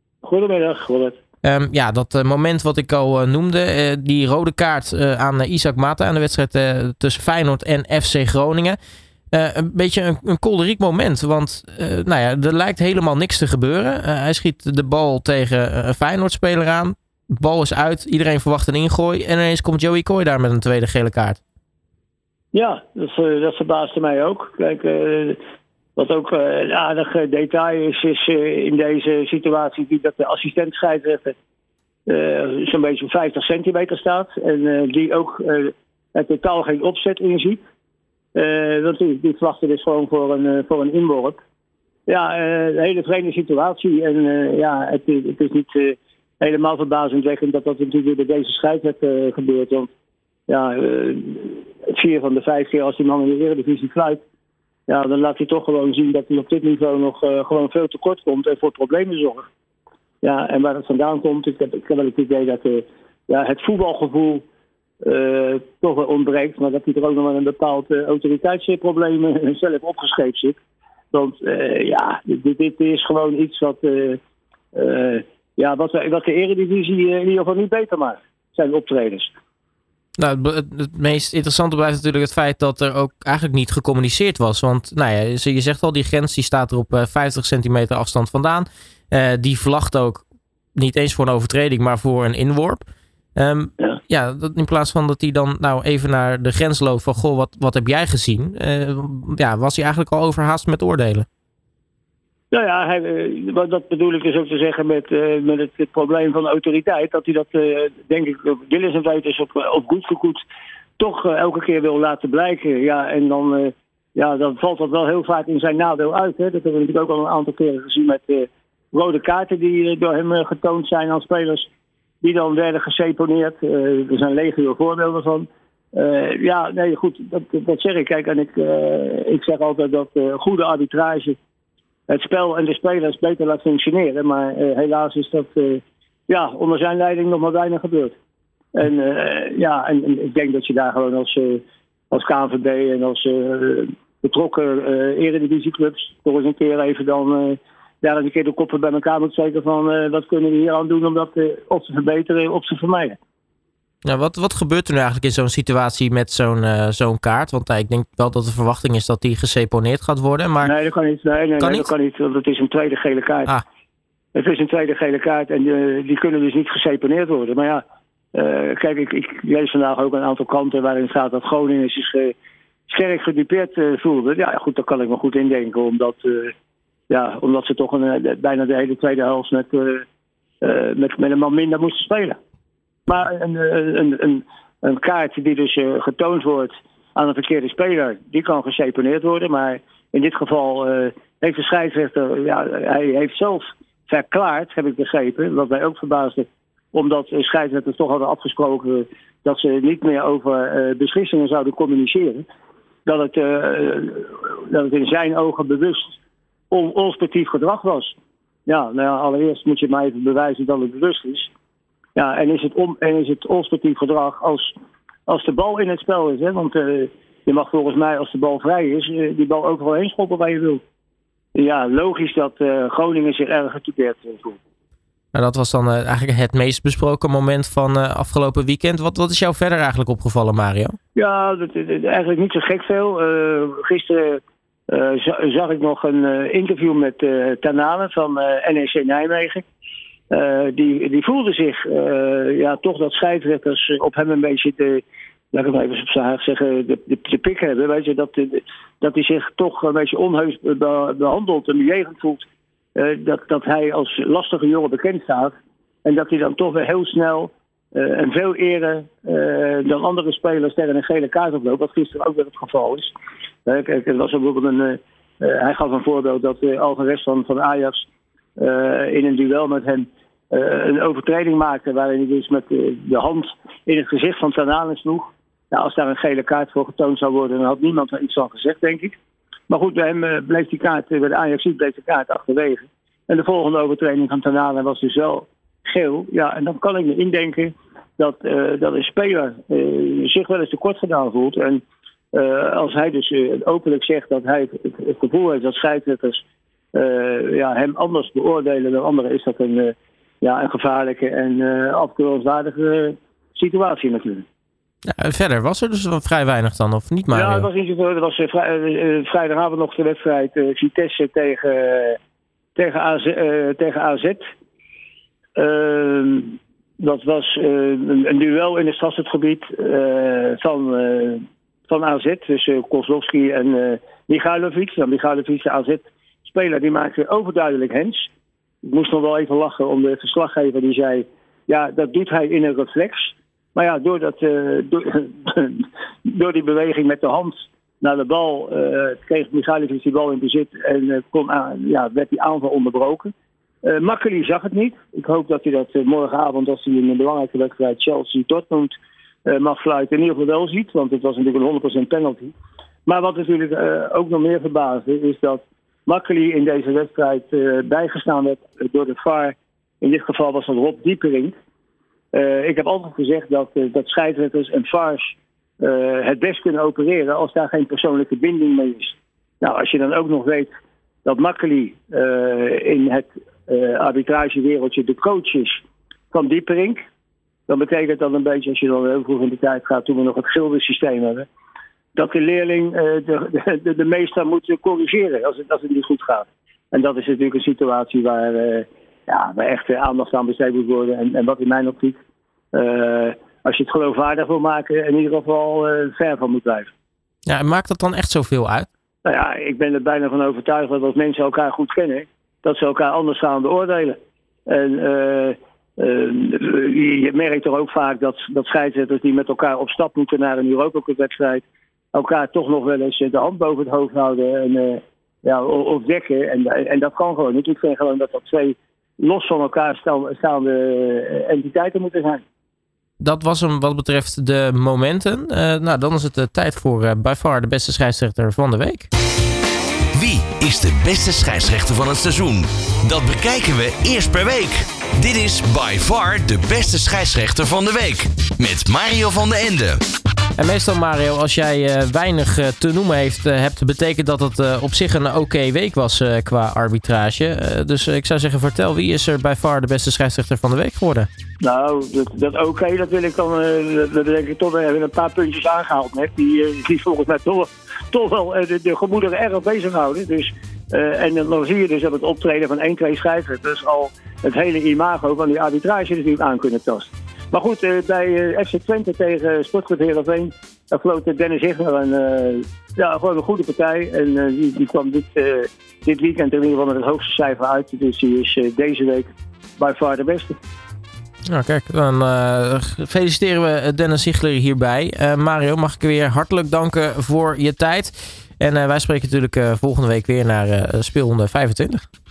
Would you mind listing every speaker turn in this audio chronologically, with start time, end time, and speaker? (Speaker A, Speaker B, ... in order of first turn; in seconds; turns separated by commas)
Speaker A: 0.2-1.2, Speaker B: 1.4-8.8, Speaker B: 9.3-21.4, Speaker A: 22.5-25.4, Speaker A: 25.9-31.4, Speaker A: 32.1-37.6, Speaker A: 38.3-41.4, Speaker A: 42.1-49.9, Speaker A: 50.5-54.2, Speaker A: 54.9-59.5, Speaker A: 60.2-64.4, Speaker A: 65.0-70.6, Speaker A: 71.1-74.2, Speaker A: 74.7-79.3, Speaker B: 80.2-90.2, Speaker B: 90.8-92.8, Speaker B: 93.3-101.2, Speaker A: 102.5-110.4, Speaker A: 111.0-121.7, Speaker A: 122.2-131.4, Speaker A: 132.1-138.2, Speaker A: 138.7-153.2, Speaker B: 154.0-160.7, Speaker A: 160.6-163.5, Speaker B: 161.6-161.9, Speaker A: 164.3-172.3, Speaker A: 172.9-176.5, Speaker A: 177.1-180.1, Speaker A: 180.6-182.4, Speaker A: 183.1-202.4, Speaker A: 203.0-206.2, Speaker A: 206.7-208.2, Speaker A: 208.7-211.5, Speaker A: 212.2-214.7, Speaker A: 215.3-220.8, Speaker A: 221.5-224.6, Speaker B: 225.3-230.9, Speaker A: 231.2-239.6, Speaker A: 240.3-255.5, Speaker A: 256.0-263.1, Speaker A: 263.6-279.2, Speaker A: 279.7-291.8, Speaker A: 292.3-304.4, Speaker B: 305.1-307.7, Speaker A: 307.3-312.2, Speaker A: 312.8-314.4, Speaker A: 315.6-328.3, Speaker A: 328.8-343.3, Speaker A: 343.8-348.9, Speaker A: 349.4-352.5, Speaker A: 353.1-361.5, Speaker A: 362.3-370.7, Speaker A: 371.2-377.0, Speaker A: 377.7-381.5, Speaker A: 382.1-392.2, Speaker A: 392.7-396.9, Speaker B: 397.5-398.9, Speaker A: 399.2-422.4, Speaker B: 423.2-429.1, Speaker C: 430.1-440.0, Speaker B: 440.6-451.3, Speaker A: 451.6-480.5, Speaker B: 481.5-492.0